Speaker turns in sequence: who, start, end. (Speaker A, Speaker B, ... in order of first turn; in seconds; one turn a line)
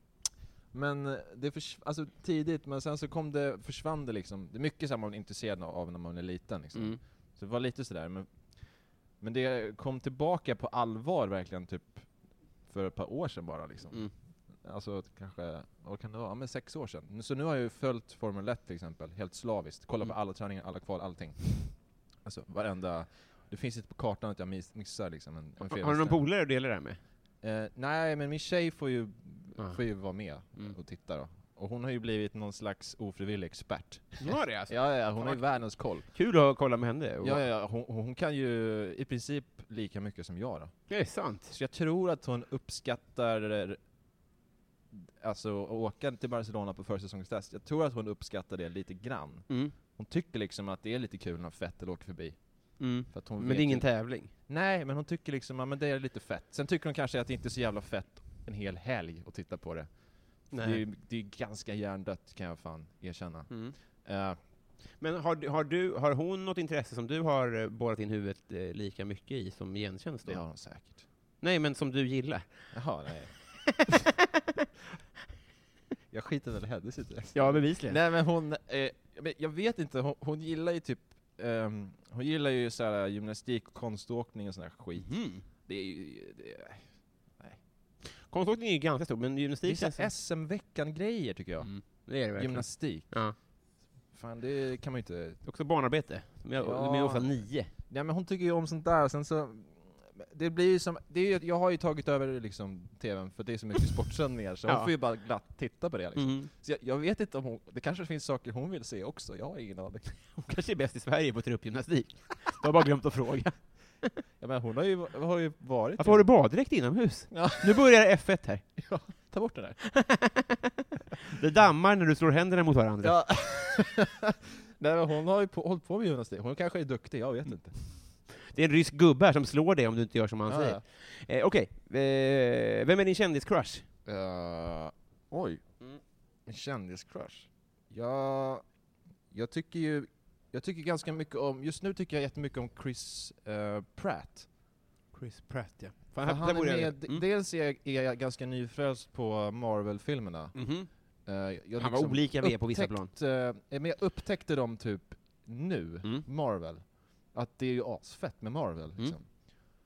Speaker A: 0.7-8.5
Speaker B: 6.7-7.0
Speaker A: 9.2-12.1
Speaker A: 12.7-26.2
Speaker B: 25.6-27.0
Speaker A: 27.4-36.1
Speaker B: 34.2-37.4
Speaker A: 37.2-40.9
Speaker B: 40.9-41.5
Speaker A: 41.5-43.8
Speaker A: 44.9-59.9
Speaker B: 49.5-49.7
Speaker B: 52.8-54.3
Speaker A: 60.4-64.4
Speaker B: 60.5-60.8
Speaker B: 63.5-63.7
Speaker B: 64.9-70.4
Speaker A: 70.2-71.0
Speaker B: 71.4-72.7
Speaker A: 72.7-73.3
Speaker B: 73.7-74.1
Speaker A: 76.1-86.9
Speaker B: 77.3-78.0
Speaker B: 85.0-85.4
Speaker B: 88.1-90.1
Speaker A: 89.6-93.2
Speaker B: 91.6-93.3
Speaker A: 94.1-95.4
Speaker B: 95.4-97.7
Speaker A: 96.6-110.3
Speaker B: 104.7-104.9
Speaker B: 106.2-106.5
Speaker B: 110.3-114.1
Speaker A: 114.4-116.3
Speaker B: 116.0-119.2
Speaker A: 117.3-117.8
Speaker A: 118.8-119.8
Speaker B: 119.8-120.6
Speaker B: 121.2-123.4
Speaker A: 123.0-127.8
Speaker B: 127.9-133.9
Speaker A: 130.5-130.8
Speaker A: 134.1-135.9
Speaker A: 136.4-138.7
Speaker A: 139.3-144.5
Speaker B: 145.1-147.2
Speaker A: 146.2-150.7
Speaker B: 150.5-150.9
Speaker A: 151.2-159.2
Speaker B: 151.8-153.1